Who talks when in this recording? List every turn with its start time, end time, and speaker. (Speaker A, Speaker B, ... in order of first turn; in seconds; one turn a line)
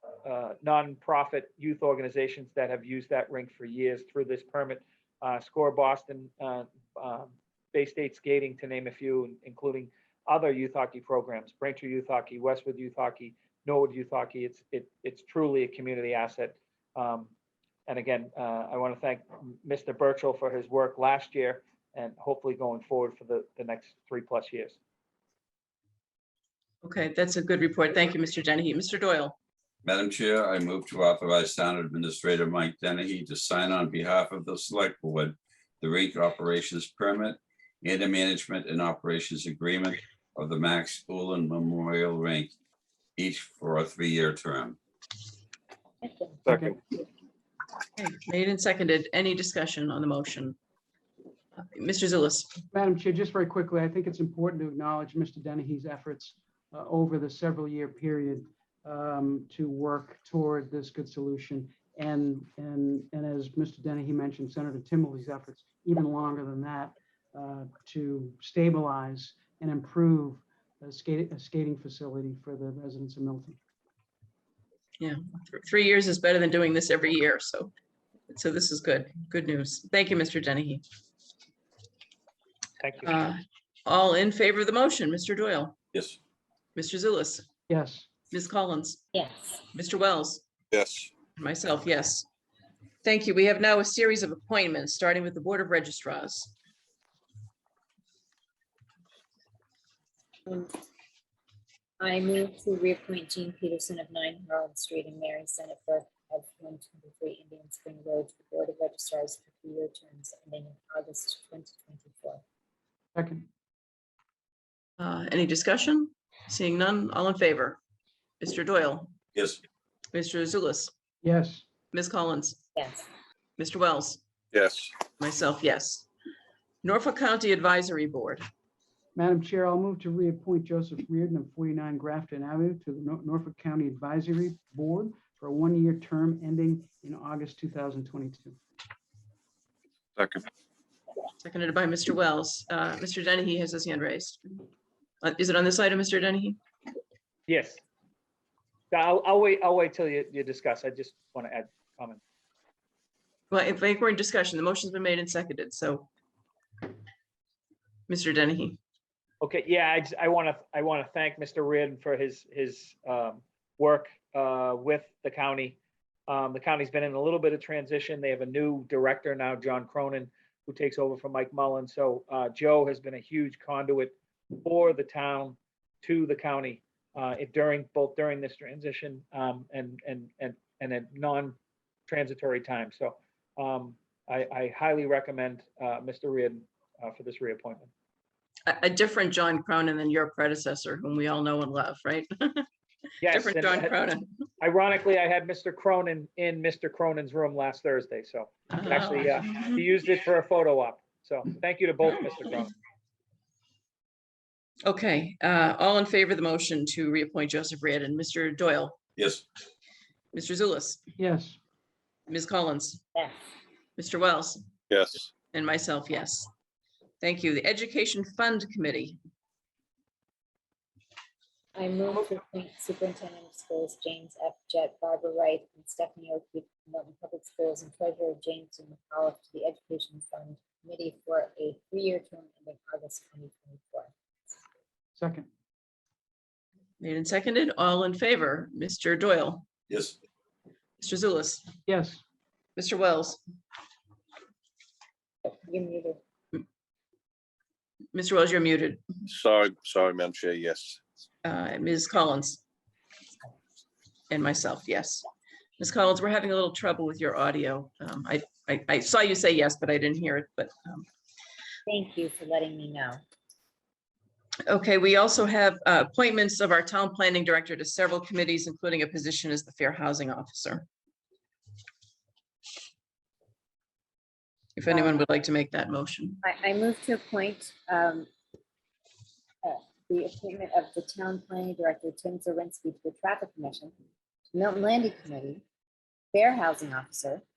Speaker A: 0.2-17.3
Speaker A: 17.9-24.8
Speaker B: 26.8-29.4
Speaker C: 29.8-42.5
Speaker C: 43.2-44.8
Speaker D: 46.0-46.8
Speaker A: 46.5-46.8
Speaker B: 48.0-50.6
Speaker B: 51.6-52.5
Speaker E: 52.7-73.6
Speaker B: 75.0-77.7
Speaker B: 78.3-80.8
Speaker A: 82.8-83.1
Speaker B: 83.0-85.8
Speaker B: 86.8-87.5
Speaker E: 87.7-88.1
Speaker B: 88.3-89.0
Speaker D: 89.1-89.6
Speaker B: 89.7-90.4
Speaker F: 90.7-91.1
Speaker B: 91.4-92.3
Speaker B: 93.0-96.5
Speaker D: 100.5-100.7
Speaker D: 102.0-112.4
Speaker E: 113.2-113.5
Speaker B: 115.0-117.8
Speaker B: 118.4-119.1
Speaker C: 119.3-119.6
Speaker B: 120.1-120.9
Speaker E: 121.2-121.6
Speaker B: 121.9-122.6
Speaker D: 122.8-123.1
Speaker B: 123.6-124.2
Speaker F: 124.5-124.9
Speaker B: 125.2-126.1
Speaker B: 126.8-128.4
Speaker E: 129.2-138.6
Speaker F: 140.2-140.4
Speaker B: 141.4-144.7
Speaker B: 145.2-146.6
Speaker A: 147.5-147.8
Speaker A: 148.9-152.2
Speaker B: 153.5-156.1
Speaker B: 158.1-158.8
Speaker A: 159.4-187.9
Speaker B: 188.7-192.7
Speaker A: 193.2-193.9
Speaker B: 193.3-194.3
Speaker A: 194.6-202.7
Speaker B: 198.7-199.8
Speaker B: 204.8-209.0
Speaker C: 209.2-209.4
Speaker B: 210.3-211.0
Speaker E: 211.2-211.6
Speaker B: 212.3-213.0
Speaker B: 214.0-214.6
Speaker F: 214.9-215.3
Speaker B: 215.5-216.5
Speaker B: 217.2-219.2
Speaker D: 221.8-234.6
Speaker E: 235.2-235.5
Speaker B: 237.0-239.7
Speaker C: 239.9-240.2
Speaker B: 241.0-241.7
Speaker E: 241.9-242.2
Speaker B: 242.8-243.4
Speaker D: 245.4-246.2
Speaker B: 248.1-249.0
Speaker F: 249.3-251.0
Speaker B: 251.4-252.6
Speaker B: 254.3-255.3
Speaker B: 255.8-261.1
Speaker D: 261.9-263.2
Speaker B: 264.7-270.9
Speaker B: 274.8-276.4
Speaker D: 274.9-275.2
Speaker D: 276.4-278.3
Speaker D: 279.6-283.9
Speaker D: 284.5-285.6
Speaker D: 286.3-287.4